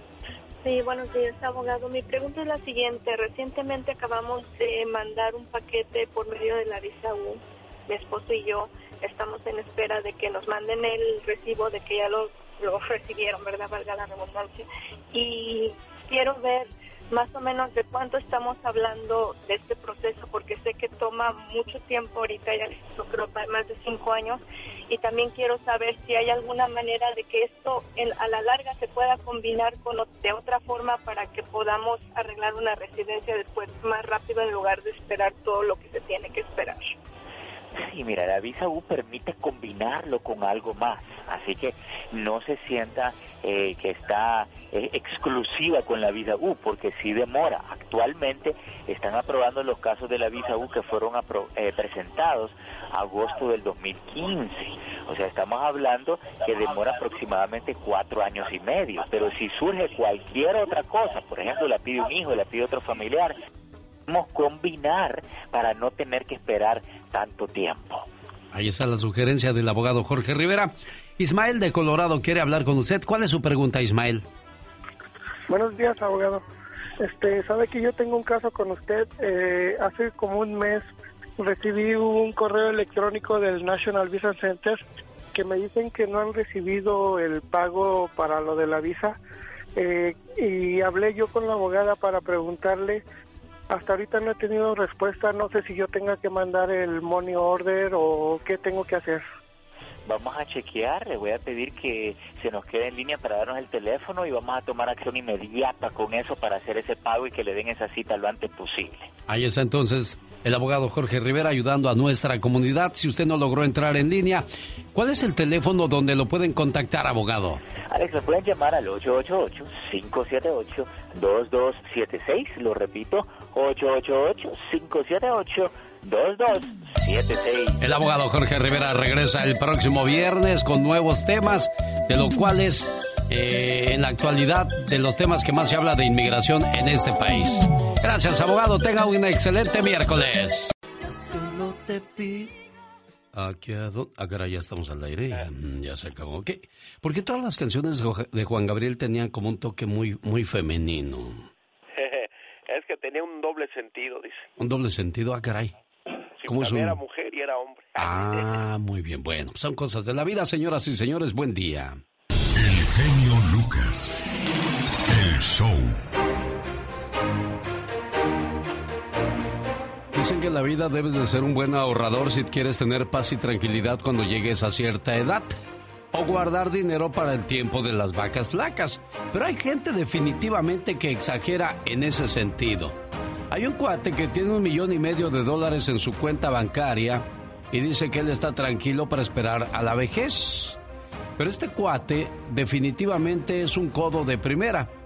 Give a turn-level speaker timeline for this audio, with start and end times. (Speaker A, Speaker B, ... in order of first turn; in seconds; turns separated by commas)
Speaker A: 0.6-36.9, Speaker B: 37.8-63.4, Speaker B: 64.1-68.1, Speaker C: 68.5-74.2, Speaker D: 75.5-76.5, Speaker D: 77.0-84.8, Speaker D: 85.3-89.2, Speaker D: 89.8-93.0, Speaker D: 93.7-99.2, Speaker B: 100.1-109.1, Speaker C: 109.3-117.6, Speaker B: 117.9-127.8, Speaker C: 127.8-140.7, Speaker C: 141.6-142.5, Speaker C: 143.3-151.5, Speaker E: 152.0-154.4, Speaker C: 154.6-155.7, Speaker E: 156.4-158.5, Speaker C: 156.5-157.0, Speaker C: 158.0-162.0, Speaker F: 162.6-164.3, Speaker F: 165.1-166.0, Speaker C: 170.1-175.6, Speaker C: 176.1-183.0, Speaker C: 183.5-190.8, Speaker C: 191.4-194.9